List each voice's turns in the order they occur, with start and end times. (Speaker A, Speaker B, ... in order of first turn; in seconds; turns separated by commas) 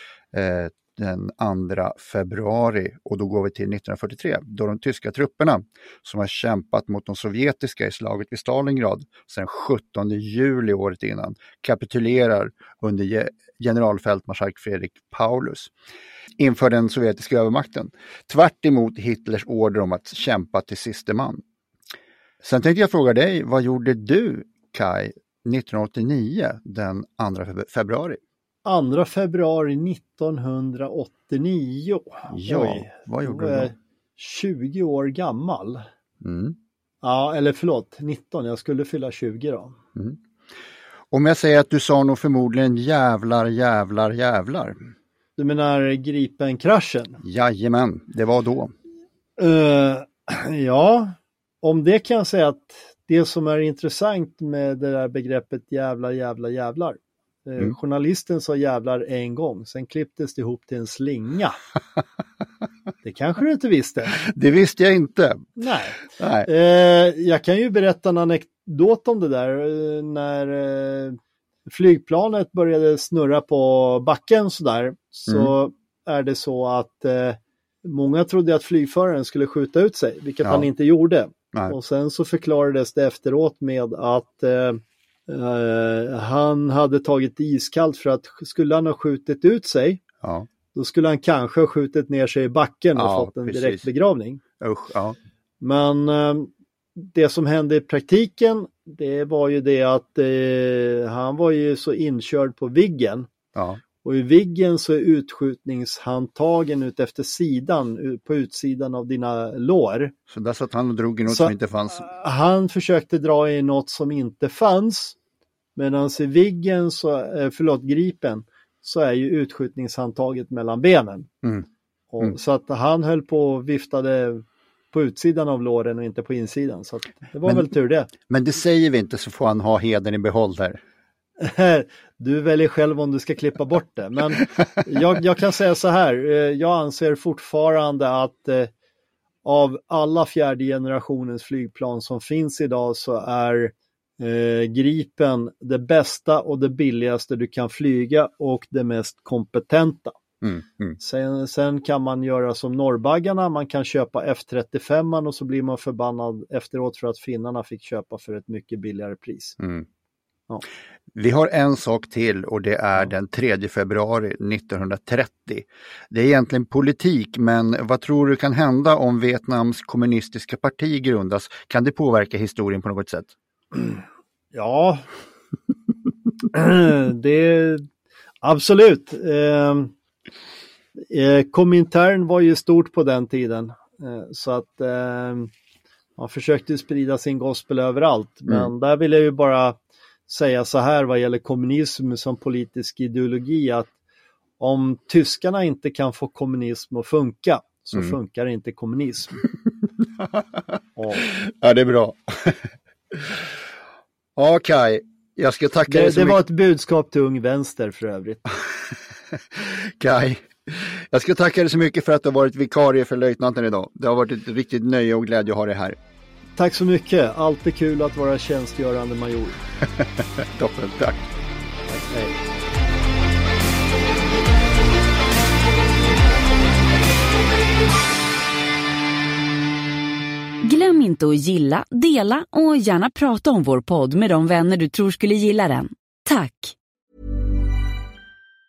Speaker A: 0.3-15.7, Speaker A: 16.4-21.4, Speaker A: 22.4-28.2, Speaker B: 28.6-35.8, Speaker A: 32.3-33.7, Speaker A: 36.2-36.6, Speaker B: 37.0-39.8, Speaker A: 41.1-44.8, Speaker B: 45.4-47.2, Speaker A: 47.2-48.7, Speaker B: 49.4-61.6, Speaker B: 63.0-64.2, Speaker A: 64.1-65.6, Speaker B: 65.6-71.2, Speaker A: 66.1-66.5, Speaker B: 71.7-90.0, Speaker A: 90.2-90.5, Speaker B: 90.7-94.4, Speaker A: 93.0-93.9, Speaker A: 94.6-95.2, Speaker B: 95.6-103.3, Speaker A: 103.5-103.8, Speaker B: 104.0-110.1, Speaker A: 110.3-112.1, Speaker B: 111.3-115.2, Speaker B: 115.8-121.3, Speaker B: 122.1-128.1, Speaker A: 128.2-130.8, Speaker B: 131.4-138.7, Speaker B: 139.4-150.2, Speaker A: 150.4-150.9, Speaker B: 151.0-159.6, Speaker A: 159.6-159.9, Speaker A: 161.1-173.3, Speaker B: 174.5-175.1, Speaker B: 176.5-177.9, Speaker B: 178.4-179.9, Speaker B: 181.0-185.5, Speaker B: 186.2-189.8, Speaker B: 190.3-193.9, Speaker B: 194.6-199.4, Speaker A: 200.0-200.6, Speaker B: 201.0-201.2, Speaker A: 201.1-203.4, Speaker A: 204.4-206.4, Speaker B: 205.9-208.4, Speaker A: 208.9-216.0, Speaker B: 216.6-219.6, Speaker A: 219.8-221.2, Speaker B: 221.9-222.4, Speaker C: 230.6-236.7